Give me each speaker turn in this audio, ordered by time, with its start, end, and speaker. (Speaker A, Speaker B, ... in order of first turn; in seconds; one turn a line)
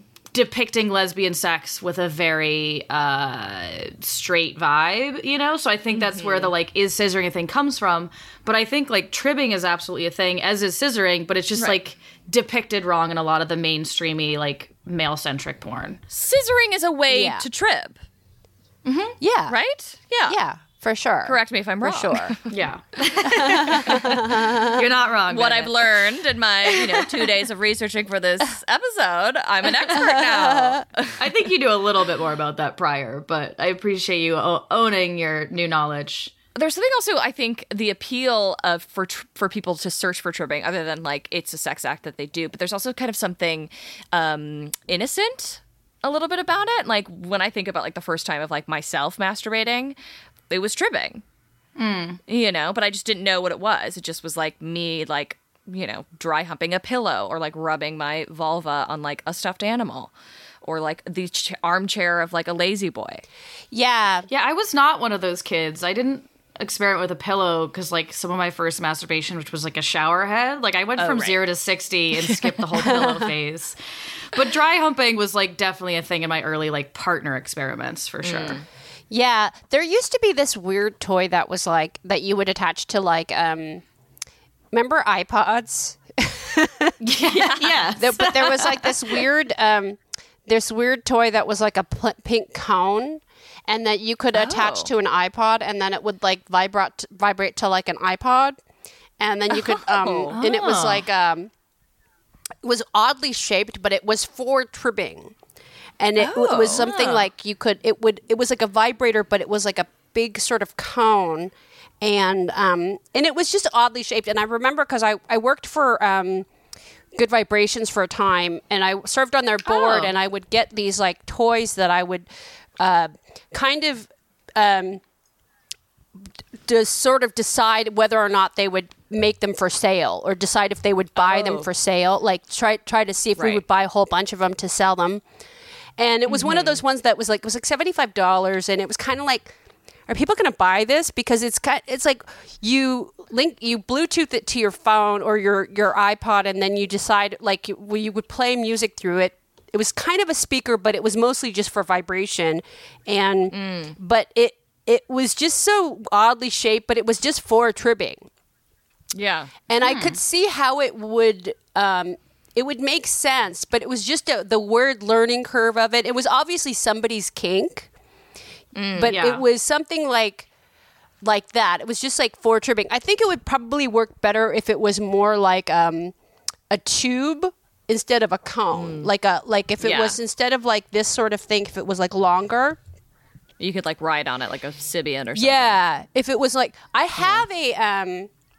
Speaker A: 0.3-16.0
Speaker B: 5.9-6.5
Speaker B: 16.1-18.0
Speaker C: 17.1-17.5
Speaker A: 18.8-19.1
Speaker C: 19.2-19.6
Speaker B: 19.5-20.4
Speaker C: 20.3-22.4
Speaker B: 21.2-22.5
Speaker A: 22.5-25.9
Speaker C: 23.4-24.8
Speaker B: 23.5-24.1
Speaker B: 25.3-31.2
Speaker A: 26.9-27.2
Speaker C: 29.9-30.8
Speaker A: 30.1-30.4
Speaker A: 31.2-36.3
Speaker B: 36.5-50.0
Speaker B: 50.5-51.2
Speaker A: 51.8-52.2
Speaker B: 52.3-60.1
Speaker B: 60.6-63.2
Speaker C: 63.7-64.3
Speaker A: 64.3-73.8
Speaker B: 71.0-71.4
Speaker C: 72.8-73.3
Speaker A: 74.3-78.6
Speaker B: 78.2-78.6
Speaker C: 79.1-83.8
Speaker C: 84.7-86.9
Speaker A: 87.0-89.2
Speaker B: 87.3-87.8
Speaker C: 87.9-98.6
Speaker B: 94.3-94.9
Speaker C: 99.2-101.5
Speaker B: 99.5-100.4
Speaker A: 100.3-101.0
Speaker C: 102.6-105.3
Speaker C: 106.0-116.5
Speaker B: 106.2-107.2
Speaker C: 117.1-125.0
Speaker C: 126.6-135.2
Speaker B: 131.2-131.7
Speaker B: 133.4-133.6
Speaker C: 136.0-139.5
Speaker B: 136.3-136.8
Speaker C: 140.1-158.2
Speaker B: 153.5-153.9
Speaker B: 159.1-159.5
Speaker C: 159.7-167.9
Speaker A: 159.8-160.2
Speaker B: 168.7-169.2
Speaker C: 168.9-170.5
Speaker A: 169.1-169.4
Speaker C: 171.2-176.1
Speaker C: 176.7-182.8
Speaker B: 178.7-179.1
Speaker B: 179.8-180.2
Speaker B: 183.6-185.8
Speaker C: 185.3-188.3